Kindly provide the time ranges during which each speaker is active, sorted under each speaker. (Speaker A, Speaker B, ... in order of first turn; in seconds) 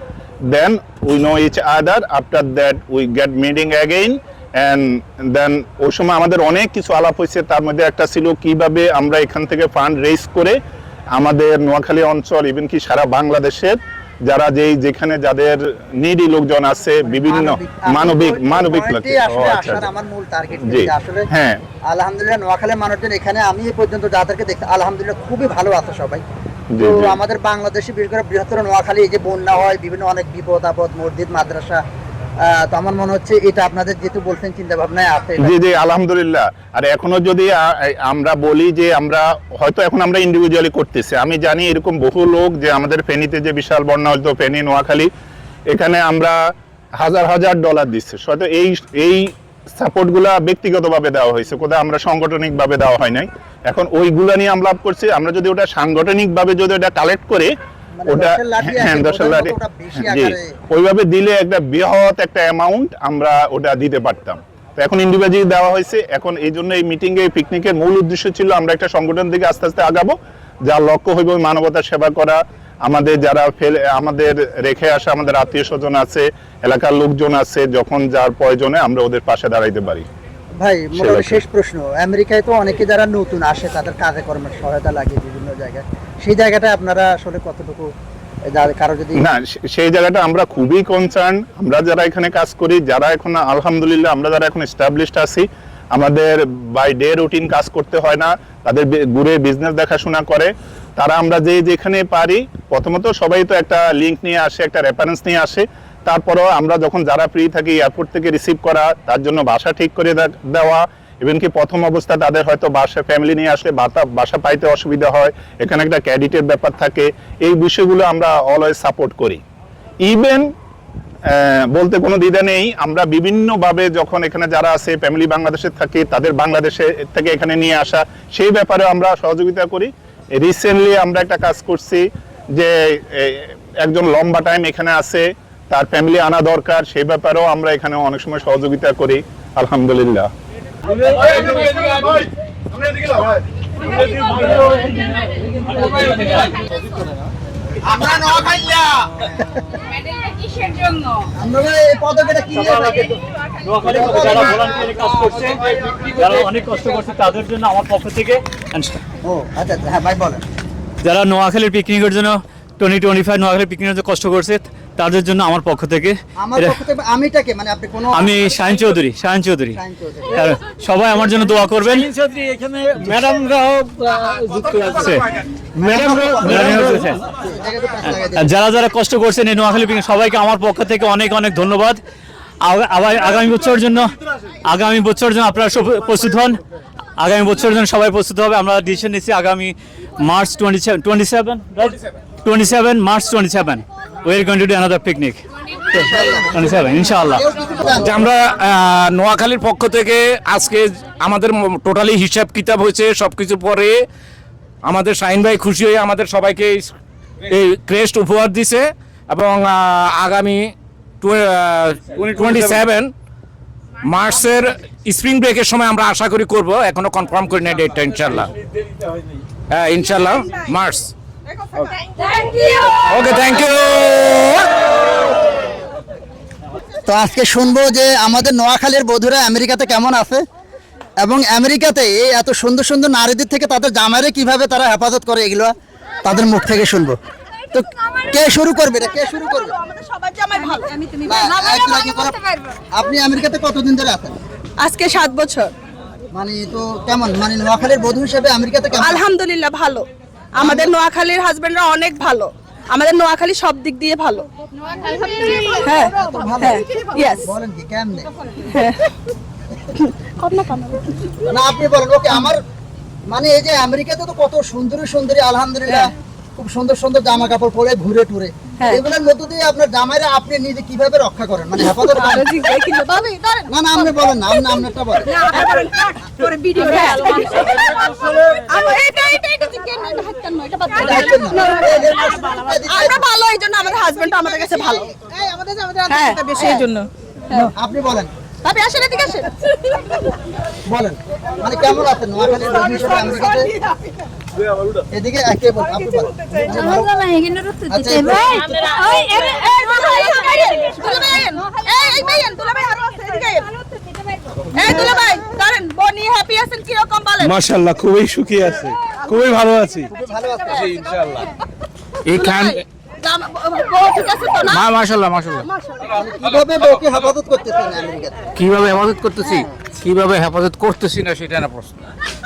Speaker A: 0.5-10.6, 11.1-19.9, 20.7-21.6, 26.8-27.2, 35.4-45.1, 45.7-46.4, 47.0-57.5, 58.1-70.2, 70.7-80.0, 81.0-81.4, 89.2-119.4, 120.0-120.4, 121.3-132.0, 132.6-140.3
Speaker B: 17.1-21.3, 21.9-26.2, 26.8-31.8, 32.4-35.5, 58.0-60.5, 80.6-87.9, 88.5-89.2, 147.9-149.5, 151.4-153.2, 153.8-154.7, 159.2-160.4, 166.4-168.6, 169.7-170.5, 175.8-178.5, 195.9-198.2, 227.0-230.4, 231.2-237.2, 237.7-239.7, 241.2-242.4, 242.9-244.4, 246.3-249.2, 250.6-250.9, 256.1-256.8, 257.4-258.3, 261.5-262.6, 263.3-272.5, 273.7-275.4, 280.9-283.2, 286.5-286.9, 287.5-288.3, 290.9-293.7, 295.1-297.3, 297.8-298.6, 310.1-310.9, 316.1-318.4, 319.4-319.7
Speaker C: 141.3-142.1, 212.2-212.7, 307.4-310.1, 310.9-311.4
Speaker D: 152.5-153.1, 153.6-159.0, 161.0-166.8, 168.1-169.8, 170.3-177.2, 178.3-182.0, 182.6-184.1, 184.7-186.6, 187.2-195.4, 196.0-197.4
Speaker E: 198.0-204.1, 204.8-206.9, 207.5-213.1, 214.0-218.5, 219.7-221.1, 223.1-224.7, 312.3-312.8, 314.7-315.6, 318.6-321.3
Speaker F: 221.6-221.9, 239.1-242.3, 244.8-245.7, 249.0-250.1, 250.6-254.5, 255.2-257.5, 258.7-259.1, 260.4-261.0, 271.8-273.7, 275.2-282.1, 282.9-287.7, 288.6-290.3, 298.3-303.7, 304.7-307.5, 310.6-311.4, 312.3-314.9, 315.7-316.0